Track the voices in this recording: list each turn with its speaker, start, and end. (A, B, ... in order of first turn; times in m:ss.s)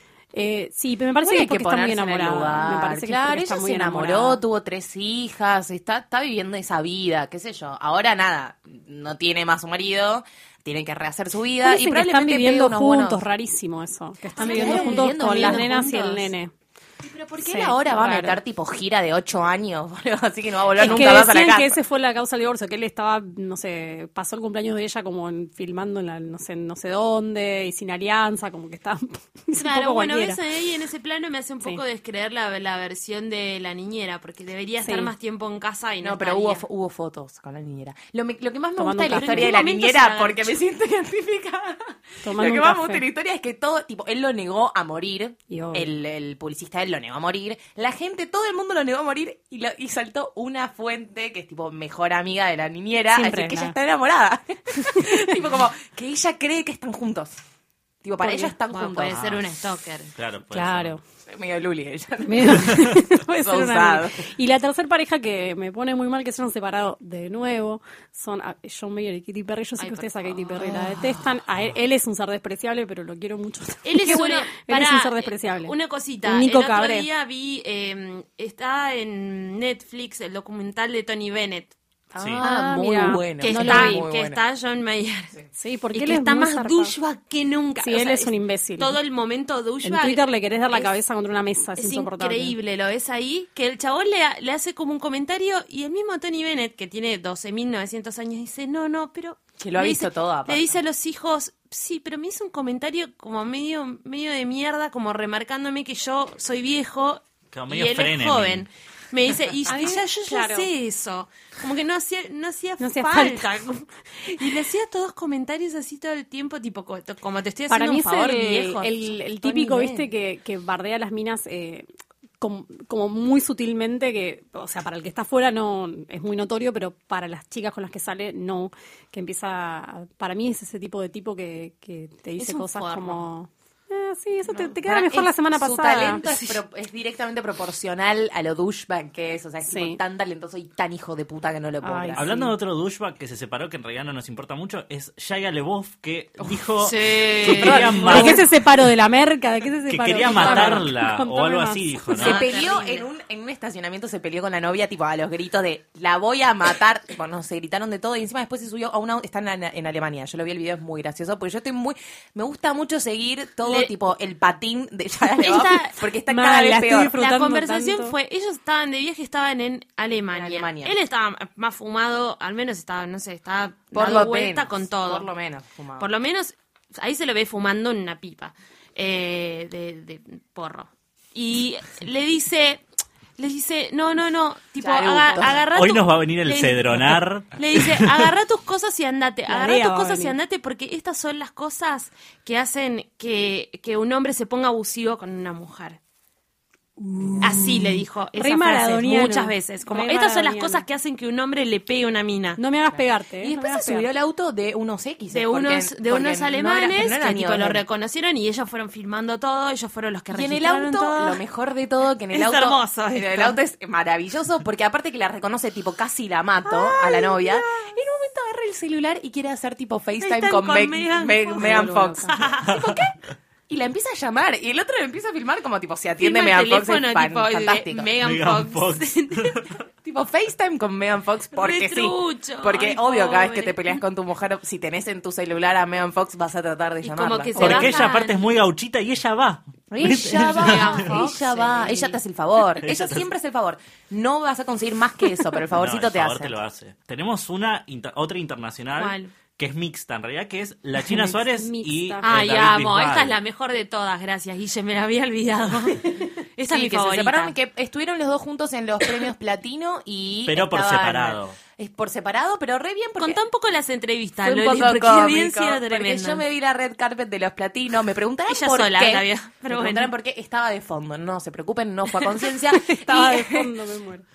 0:00.3-0:04.4 A
0:01.2-0:13.2 B
0:11.6-0:16.5 A
0:14.3-0:16.3 B
0:14.4-0:15.7 C
0:17.0-0:21.8 B
0:17.4-0:18.4 A
0:20.8-0:30.4 A
0:20.8-0:21.1 C
0:29.5-0:36.6 C
0:34.8-0:35.1 A
0:36.0-0:57.3 B
0:38.8-0:39.6 A
0:39.1-0:40.6 C
0:42.2-0:43.0 A
0:45.5-0:45.9 A
0:53.1-0:53.8 A
0:58.0-0:59.2 B
0:58.2-0:58.5 A
0:58.7-1:00.1 C
0:59.1-0:59.4 D
1:00.1-1:01.0 D
1:00.5-1:01.0 A
1:01.3-1:04.2 B
1:02.2-1:17.1 A
1:09.8-1:10.8 C
1:10.6-1:11.2 B
1:13.8-1:21.7 C
1:22.1-1:24.4 B
1:22.2-1:22.4 D
1:22.4-1:24.0 A
1:23.4-1:25.4 C
1:25.5-1:26.9 A
1:25.9-1:30.9 C
1:27.8-1:29.0 A
1:29.8-1:32.5 A
1:31.8-2:00.0 C
1:39.6-1:40.8 B
1:47.5-1:48.7 D
1:49.7-1:50.7 A
1:52.8-1:53.5 A
1:57.7-2:01.8 A
2:02.4-2:16.2 A
2:12.4-2:13.2 C
2:14.8-2:22.3 B
2:16.2-2:16.6 C
2:19.6-2:20.0 A
2:21.8-2:22.5 A
2:22.2-2:28.4 D
2:26.8-2:28.4 C
2:27.4-2:28.3 B
2:27.6-2:32.5 A
2:29.9-2:32.4 D
2:30.2-2:30.8 C
2:30.3-2:30.7 B
2:32.1-2:33.0 C
2:32.2-2:47.2 B
2:43.6-2:43.9 C
2:45.4-2:46.0 C
2:46.3-2:48.1 A
2:47.1-2:55.3 C
2:50.3-2:50.9 B
2:53.9-2:56.1 B
2:56.0-3:02.8 C
3:03.4-3:16.0 C
3:04.8-3:05.6 B
3:05.7-3:08.1 D
3:09.5-3:10.4 A
3:17.0-3:20.8 A
3:17.4-3:22.6 C
3:22.6-3:24.1 A
3:22.9-3:27.8 B
3:25.3-3:31.4 C
3:30.3-3:43.2 B
3:32.3-3:33.6 C
3:36.7-3:37.9 A
3:40.2-3:42.7 C
3:41.5-3:42.4 A
3:43.7-3:48.1 B
3:46.2-3:49.6 C
3:48.2-3:49.8 D
3:50.0-3:58.0 B
3:51.5-3:54.0 C
3:57.0-3:58.4 C
3:57.6-4:01.2 D
3:59.9-4:06.6 B
4:00.3-4:02.2 C
4:02.8-4:03.3 D
4:05.7-4:13.4 D
4:09.0-4:09.3 C
4:11.0-4:12.3 A
4:12.2-4:17.5 C
4:16.7-4:23.4 B
4:20.4-4:21.6 D
4:23.2-4:26.4 C
4:24.4-4:33.7 B
4:28.5-4:30.1 C
4:32.1-4:32.5 C
4:32.7-4:34.2 A